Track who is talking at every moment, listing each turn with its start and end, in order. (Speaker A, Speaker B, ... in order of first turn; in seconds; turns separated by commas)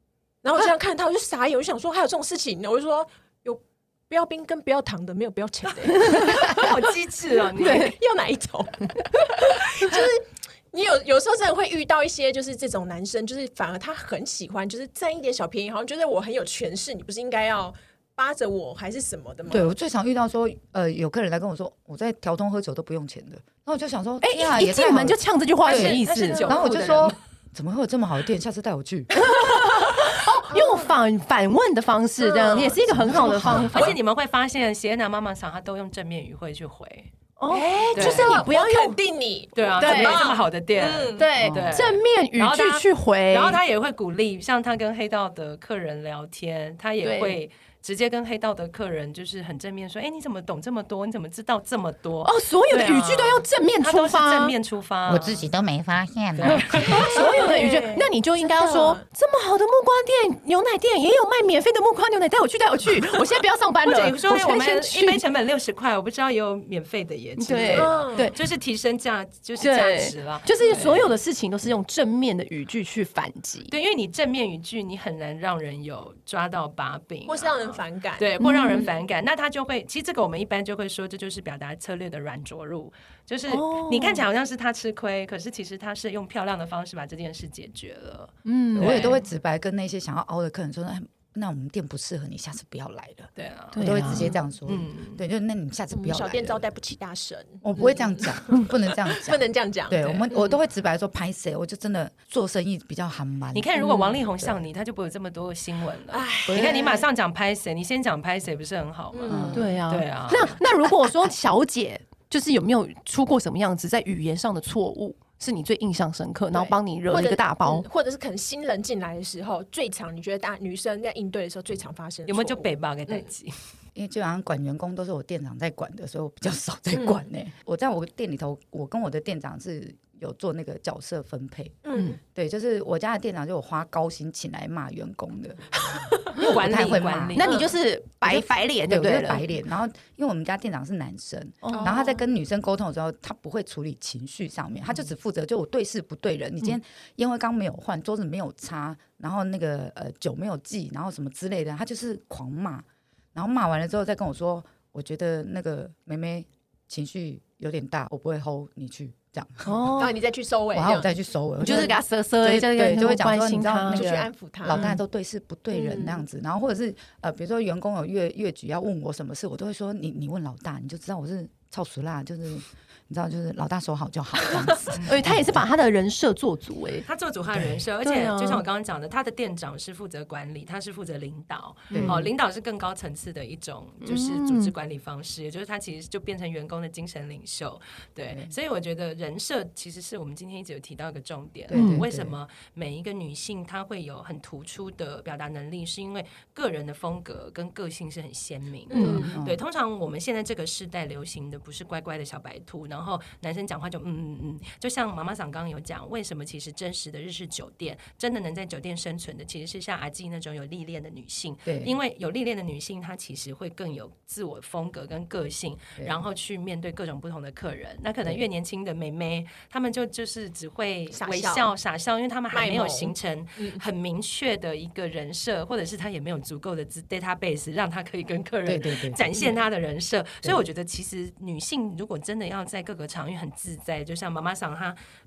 Speaker A: 0.4-19.7, Speaker B: 6.0-6.4, Speaker C: 6.0-7.9, Speaker B: 7.6-7.9, Speaker D: 19.5-29.1, Speaker B: 24.2-26.5, Speaker C: 25.6-27.2, Speaker A: 26.3-26.6, Speaker B: 29.1-34.0, Speaker A: 30.5-30.9, Speaker A: 32.2-32.8, Speaker D: 32.9-33.9, Speaker C: 33.1-37.1, Speaker B: 37.4-39.0, Speaker A: 37.5-41.3, Speaker C: 37.9-38.5, Speaker C: 39.5-55.4, Speaker B: 39.8-40.3, Speaker B: 41.2-43.6, Speaker D: 41.4-41.8, Speaker B: 47.0-47.4, Speaker B: 52.2-54.5, Speaker D: 55.1-57.2, Speaker C: 56.4-57.2, Speaker B: 56.5-65.2, Speaker A: 56.9-59.0, Speaker C: 63.9-71.1, Speaker B: 67.4-68.3, Speaker A: 67.7-68.3, Speaker B: 69.6-73.7, Speaker C: 73.7-89.2, Speaker A: 77.3-78.3, Speaker B: 78.4-78.9, Speaker B: 83.5-84.2, Speaker B: 88.4-89.1, Speaker D: 88.7-96.7, Speaker C: 93.3-95.2, Speaker B: 93.7-94.3, Speaker A: 95.9-100.5, Speaker D: 97.6-103.8, Speaker C: 103.5-110.6, Speaker B: 103.8-104.2, Speaker A: 106.1-107.0, Speaker D: 106.5-106.8, Speaker A: 109.1-109.8, Speaker D: 109.3-109.7, Speaker B: 109.5-117.9, Speaker A: 116.5-123.3, Speaker C: 122.3-123.5, Speaker D: 123.9-137.5, Speaker A: 126.9-127.2, Speaker A: 131.8-132.2, Speaker C: 136.3-137.5, Speaker B: 137.3-139.5, Speaker A: 137.4-137.7, Speaker D: 138.2-160.0, Speaker B: 141.6-142.0, Speaker A: 141.7-142.2, Speaker B: 159.7-160.2, Speaker A: 160.0-161.1, Speaker D: 160.7-175.6, Speaker B: 161.6-164.1, Speaker A: 161.7-162.0, Speaker A: 163.9-164.9, Speaker B: 164.7-165.0, Speaker A: 165.7-166.2, Speaker B: 175.1-177.1, Speaker C: 177.1-235.0, Speaker B: 178.0-178.6, Speaker B: 181.9-182.2, Speaker D: 181.9-182.3, Speaker B: 184.0-184.7, Speaker D: 191.7-192.3, Speaker B: 191.7-192.0, Speaker A: 198.9-199.4, Speaker B: 198.9-199.3, Speaker D: 199.1-199.6, Speaker D: 211.6-211.9, Speaker A: 221.1-221.7, Speaker A: 222.5-223.8, Speaker D: 228.7-229.2